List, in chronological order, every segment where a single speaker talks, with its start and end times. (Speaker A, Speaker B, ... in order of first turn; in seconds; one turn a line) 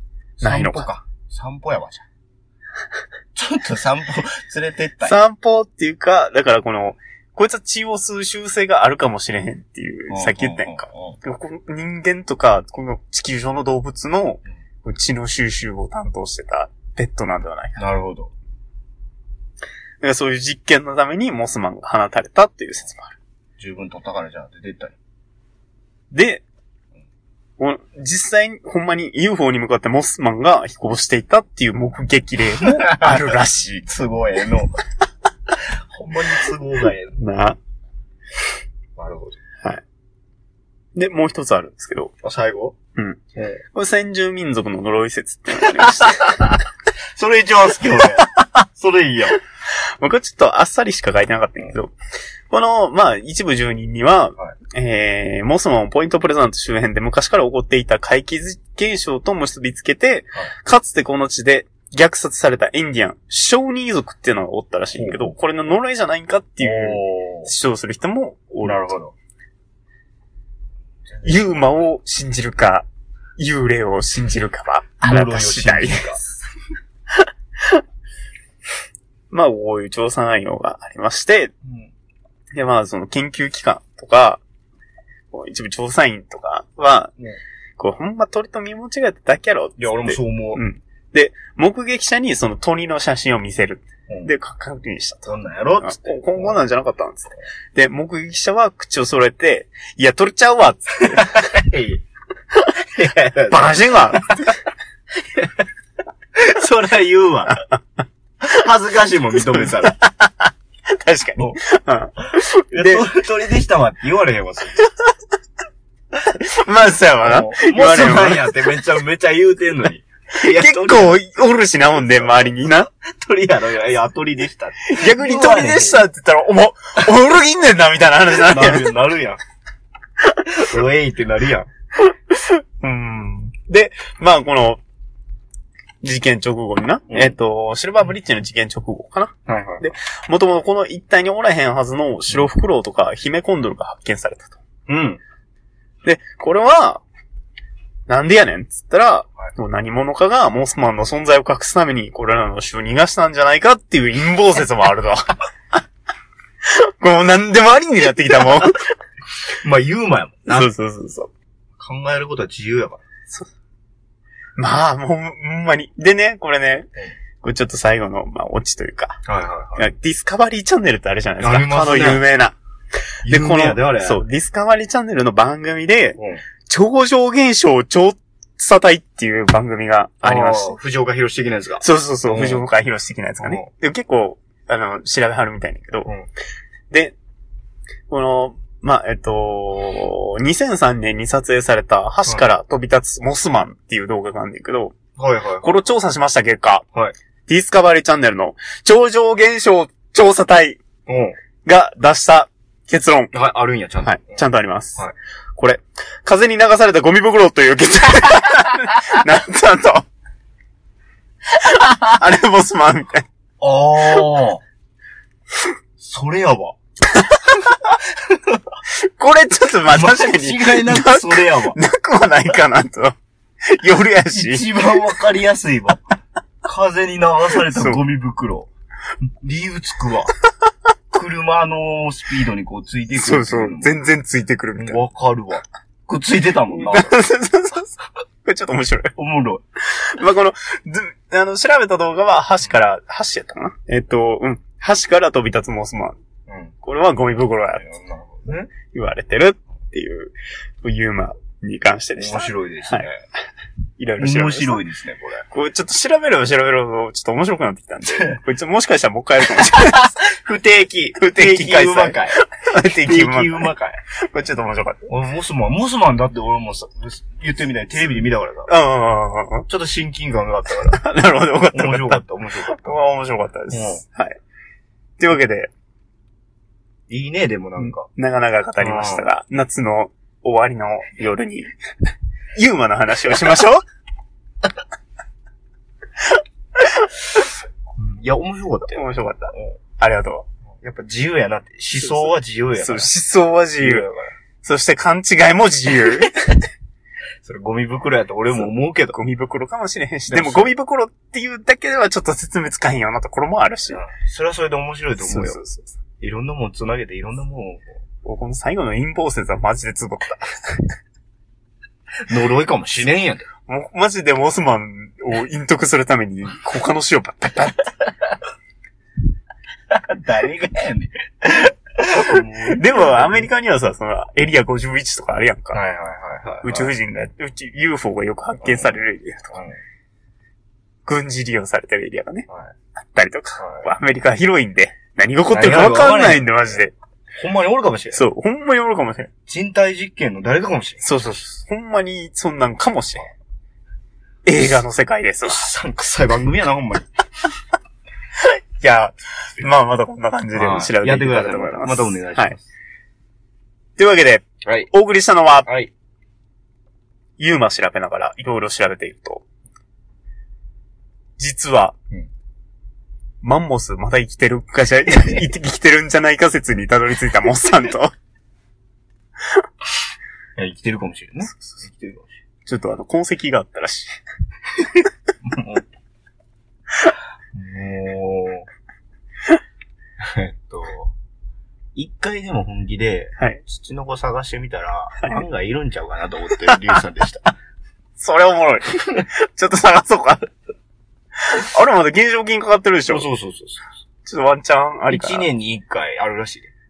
Speaker A: 0.4-2.0
Speaker B: 0.4-0.9
Speaker A: 3.4-5.2
Speaker B: 5.0-17.9
Speaker A: 10.1-11.2
Speaker A: 17.8-18.3
Speaker B: 20.0-23.2
Speaker A: 23.6-25.0
Speaker B: 26.1-26.4
Speaker B: 27.6-33.9
Speaker A: 32.6-33.3
Speaker A: 33.9-34.8
Speaker A: 35.5-37.2
Speaker B: 37.2-37.6
Speaker A: 39.0-39.4
Speaker B: 41.0-42.1
Speaker A: 42.2-42.8
Speaker A: 43.4-43.6
Speaker B: 43.7-46.5
Speaker A: 45.6-46.6
Speaker A: 47.1-49.4
Speaker B: 49.7-51.9
Speaker B: 52.5-69.0
Speaker A: 65.0-65.3
Speaker A: 66.6-67.5
Speaker A: 68.6-69.1
Speaker A: 71.1-71.7
Speaker B: 71.2-72.9
Speaker B: 73.4-76.2
Speaker A: 75.0-76.3
Speaker B: 77.2-77.8
Speaker B: 79.3-81.5
Speaker A: 81.6-81.9
Speaker B: 82.5-84.4
Speaker B: 85.3-87.1
Speaker B: 87.8-101.5
Speaker A: 89.8-90.6
Speaker A: 95.3-96.6
Speaker A: 101.1-102.0
Speaker A: 102.8-104.4
Speaker B: 103.5-104.6
Speaker A: 106.4-107.6
Speaker A: 108.4-110.3
Speaker B: 109.5-109.9
Speaker B: 110.9-113.1
Speaker A: 112.3-114.9
Speaker B: 116.3-118.5
Speaker A: 117.2-121.2
Speaker B: 120.4-122.9
Speaker A: 122.2-126.0
Speaker B: 124.9-128.9
Speaker A: 128.3-129.4
Speaker A: 130.5-131.7
Speaker B: 132.0-134.8
Speaker B: 136.0-144.6
Speaker A: 139.5-139.8
Speaker A: 144.9-145.2
Speaker B: 146.0-147.0
Speaker B: 148.1-155.4
Speaker B: 156.6-158.8
Speaker A: 159.6-160.7
Speaker B: 160.5-161.3
Speaker A: 161.8-163.0
Speaker B: 164.6-166.9
Speaker B: 167.4-169.2
Speaker A: 169.2-169.9
Speaker B: 169.8-172.6
Speaker A: 171.4-172.2
Speaker A: 173.2-174.2
Speaker B: 173.3-180.8
Speaker A: 176.2-176.4
Speaker A: 180.2-182.6
Speaker B: 181.8-186.1
Speaker A: 183.4-183.7
Speaker B: 188.1-195.0
Speaker A: 195.2-195.7
Speaker B: 195.6-196.9
Speaker B: 197.5-200.8
Speaker A: 201.1-201.4
Speaker B: 201.7-203.3
Speaker A: 203.3-204.4
Speaker B: 204.0-205.0
Speaker B: 205.6-210.1
Speaker B: 211.5-213.3
Speaker A: 213.6-214.6
Speaker A: 216.0-216.8
Speaker B: 217.1-217.5
Speaker A: 217.7-218.6
Speaker B: 218.9-223.2
Speaker A: 219.9-221.8
Speaker B: 223.7-225.0
Speaker A: 224.3-226.0
Speaker A: 226.6-228.7
Speaker B: 227.7-228.0
Speaker A: 229.2-230.3
Speaker A: 231.1-233.9
Speaker B: 233.2-235.0
Speaker A: 234.8-237.2
Speaker B: 236.7-239.1
Speaker A: 239.2-239.6
Speaker B: 239.8-246.2
Speaker A: 246.5-246.7
Speaker B: 246.8-247.9
Speaker A: 247.8-248.7
Speaker B: 248.9-253.1
Speaker A: 252.2-253.2
Speaker B: 254.0-254.8
Speaker A: 254.2-255.4
Speaker B: 255.5-260.1
Speaker A: 259.5-262.4
Speaker B: 261.2-265.0
Speaker A: 263.0-264.0
Speaker A: 265.1-268.7
Speaker B: 268.7-269.7
Speaker A: 269.7-271.0
Speaker B: 270.9-274.4
Speaker A: 271.7-272.9
Speaker A: 273.7-274.0
Speaker B: 275.2-275.7
Speaker A: 277.1-278.1
Speaker B: 277.8-281.7
Speaker A: 278.8-279.3
Speaker B: 282.6-283.8
Speaker A: 288.0-289.8
Speaker B: 288.9-290.5
Speaker A: 290.8-293.1
Speaker B: 292.0-294.1
Speaker A: 293.8-294.3
Speaker B: 294.6-296.7
Speaker A: 297.4-299.2
Speaker B: 299.1-304.0
Speaker A: 300.3-300.7
Speaker A: 303.9-305.6
Speaker B: 305.2-305.9
Speaker A: 306.2-307.9
Speaker B: 308.2-310.9
Speaker A: 312.3-313.5
Speaker B: 313.7-317.9
Speaker A: 319.9-323.5
Speaker B: 322.2-325.8
Speaker A: 325.7-326.9
Speaker B: 326.6-329.6
Speaker B: 331.1-336.9
Speaker A: 333.6-333.9
Speaker A: 335.5-336.5
Speaker A: 337.4-338.2
Speaker B: 338.1-339.3
Speaker A: 339.5-341.2
Speaker B: 341.0-343.3
Speaker B: 344.5-345.6
Speaker A: 345.4-347.1
Speaker B: 348.4-352.5
Speaker A: 350.6-352.6
Speaker B: 354.0-355.7
Speaker A: 354.6-354.9
Speaker A: 355.7-355.9
Speaker B: 357.4-359.4
Speaker B: 361.4-362.0
Speaker B: 363.4-368.1
Speaker A: 370.6-372.3
Speaker B: 372.7-374.1
Speaker A: 375.4-375.9
Speaker A: 377.6-378.7
Speaker A: 380.2-381.1
Speaker A: 381.9-387.5
Speaker B: 388.2-390.5
Speaker B: 391.4-393.3
Speaker A: 393.1-393.9
Speaker B: 394.3-395.5
Speaker A: 395.1-396.7